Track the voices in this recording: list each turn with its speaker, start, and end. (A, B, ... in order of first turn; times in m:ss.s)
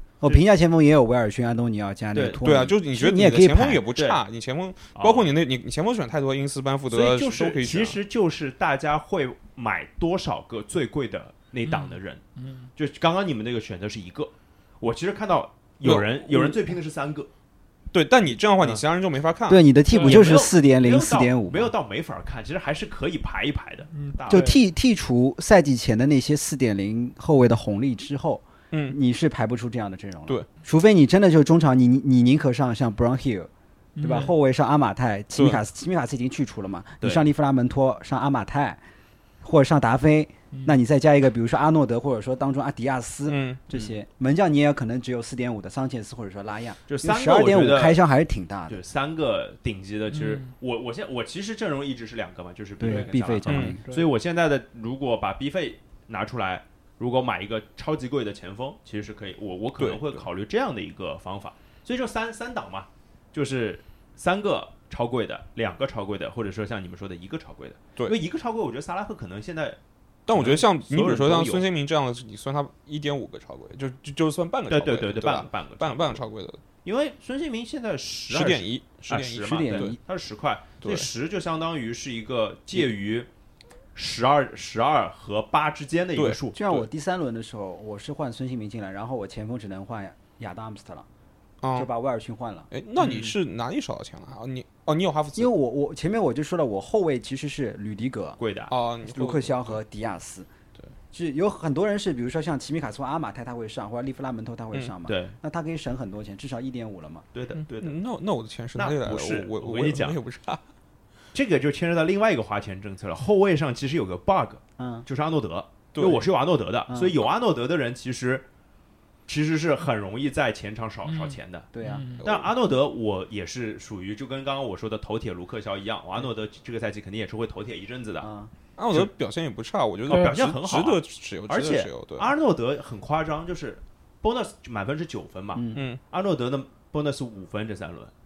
0:00.2-0:03.8 A
0:02.1-0:02.4 B
0:02.3-0:08.0 C
0:04.0-0:04.2 B
0:04.9-0:05.3 B
0:06.9-0:12.2 B
0:11.7-0:12.7 D
0:12.8-0:17.3 B
0:15.8-0:16.5 C
0:17.9-0:19.6 C
0:19.5-0:21.7 A
0:19.9-0:20.3 D
0:20.0-0:24.5 B
0:23.9-0:24.6 D
0:24.3-0:38.8 A
0:28.7-0:29.0 C
0:34.0-0:34.3 D
0:35.3-0:35.6 C
0:39.4-0:48.8 A
0:40.5-0:40.8 D
0:43.3-0:43.6 C
0:46.9-0:48.0 B
0:48.7-1:11.6 B
0:50.1-0:50.5 D
0:52.8-0:53.8 A
0:52.8-0:53.1 D
0:53.4-0:53.8 C
0:53.8-0:54.1 D
0:59.8-1:00.2 C
1:10.3-1:16.6 C
1:14.7-1:16.2 B
1:16.8-1:23.3 B
1:18.3-1:20.0 C
1:19.4-1:20.0 A
1:20.8-1:21.1 C
1:23.9-1:26.6 B
1:26.2-1:26.8 C
1:26.5-1:31.0 A
1:31.6-1:31.9 C
1:31.7-1:32.7 A
1:32.7-1:35.5 C
1:33.0-1:33.4 B
1:35.4-1:38.4 A
1:38.4-1:38.7 B
1:38.7-1:39.8 C
1:39.1-1:40.5 A
1:41.1-1:47.2 A
1:45.0-1:45.4 B
1:47.3-1:48.0 B
1:47.6-1:50.6 C
1:48.8-1:50.2 B
1:51.3-1:58.4 B
1:54.8-1:55.1 A
1:55.9-1:56.3 C
1:56.9-1:57.2 A
1:59.3-2:01.7 B
2:01.0-2:02.2 D
2:01.7-2:02.1 A
2:02.2-2:02.5 C
2:02.2-2:08.3 B
2:08.2-2:08.5 A
2:08.8-2:12.3 C
2:10.1-2:18.1 B
2:15.5-2:15.8 A
2:15.7-2:16.0 C